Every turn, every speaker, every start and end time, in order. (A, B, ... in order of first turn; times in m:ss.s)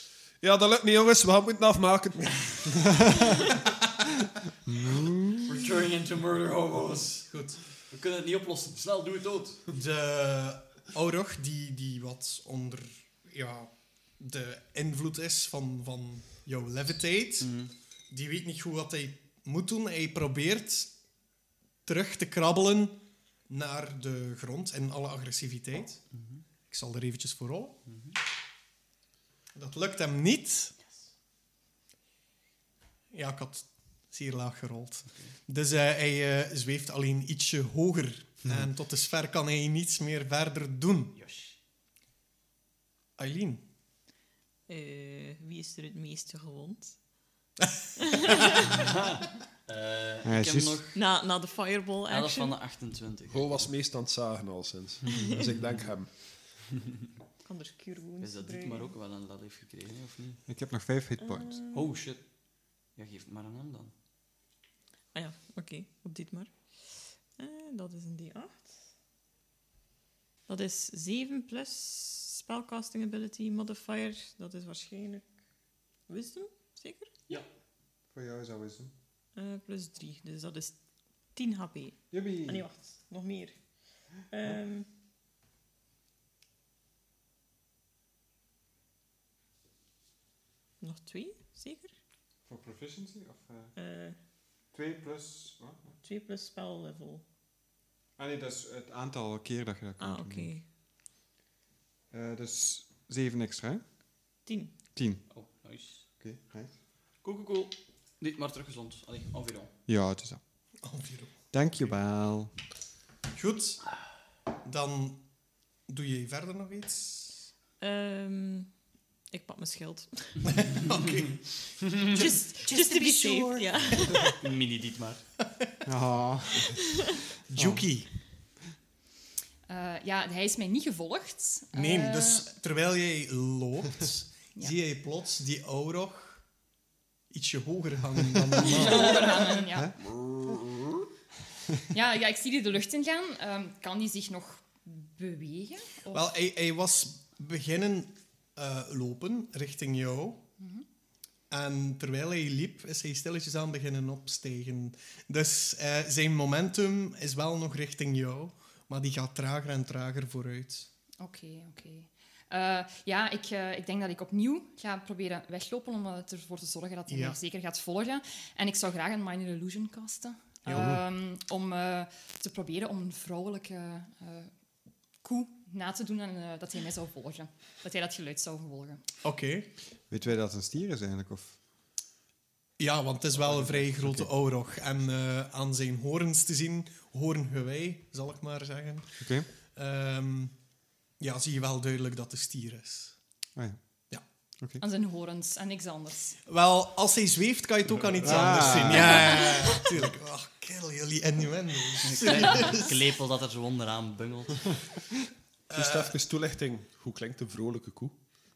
0:00.4-0:02.6 A
0:04.7-0:05.6 B
0:05.4-0:09.6 C
0:07.3-0:07.6 D
0:09.7-0:17.6 D
0:17.4-0:17.7 C
0:18.1-0:20.9 D
0:21.8-0:23.0 D
0:23.5-0:26.0 D
0:26.1-0:26.4 C
0:26.7-0:27.8 D
0:27.9-0:28.2 C
0:29.6-0:30.8 D
0:33.1-0:41.2 D
0:41.2-0:41.6 C
0:43.2-0:43.6 D
0:44.7-0:47.0 E
0:48.0-0:48.6 E
0:48.7-0:51.0 C
0:50.2-0:50.8 B
0:51.0-0:52.6 E
0:52.1-0:53.7 C
0:53.3-0:56.3 A
0:55.1-0:55.4 E
0:57.4-0:58.9 E
0:58.2-1:00.4 C
1:00.5-1:01.6 B
1:01.2-1:01.9 E
1:01.7-1:02.3 C
1:03.0-1:03.9 C
1:05.1-1:08.8 E
1:10.5-1:15.3 E
1:16.1-1:17.1 E
1:18.1-1:18.9 B
1:19.4-1:20.8 E
1:21.3-1:23.6 E
1:22.1-1:22.7 B
1:24.3-1:24.9 E
1:30.8-1:31.9 E
1:32.5-1:33.7 B
1:33.8-1:34.2 E
1:34.7-1:36.0 B
1:36.0-1:37.2 E
1:38.2-1:40.6 B
1:40.0-1:40.6 E
1:42.1-1:43.8 B
1:44.5-1:44.7 E
1:45.0-1:45.2 B
1:45.3-1:46.0 C
1:46.2-1:46.7 B
1:47.2-1:49.7 C
1:49.9-1:50.4 B
1:50.8-1:51.4 D
1:51.5-1:52.5 B
1:53.4-1:53.9 D
1:54.6-1:55.2 D
1:55.9-1:57.5 D
1:57.8-1:58.7 E
1:59.3-2:00.5 E
2:00.5-2:02.0 D
2:02.1-2:04.4 E
2:02.2-2:03.6 F
2:04.4-2:05.3 C
2:05.9-2:07.9 B
2:07.5-2:08.1 D
2:09.7-2:12.5 F
2:11.7-2:16.4 D
2:17.3-2:19.3 D
2:18.6-2:19.9 F
2:21.9-2:26.3 F
2:26.1-2:30.4 D
2:30.6-2:30.8 F
2:31.5-2:40.9 D
2:41.2-2:54.5 F
2:47.1-2:47.4 D
2:50.7-2:51.0 D
2:50.7-2:51.0 B
2:55.2-2:59.0 F
2:59.2-2:59.7 D
3:00.1-3:01.6 B
3:02.8-3:10.6 D
3:03.5-3:04.3 B
3:09.2-3:09.5 B
3:11.2-3:13.2 D
3:14.8-3:16.4 F
3:16.5-3:22.9 D
3:18.0-3:18.9 A
3:18.2-3:20.0 B
3:22.0-3:24.8 C
3:25.7-3:26.2 D
3:25.7-3:28.2 A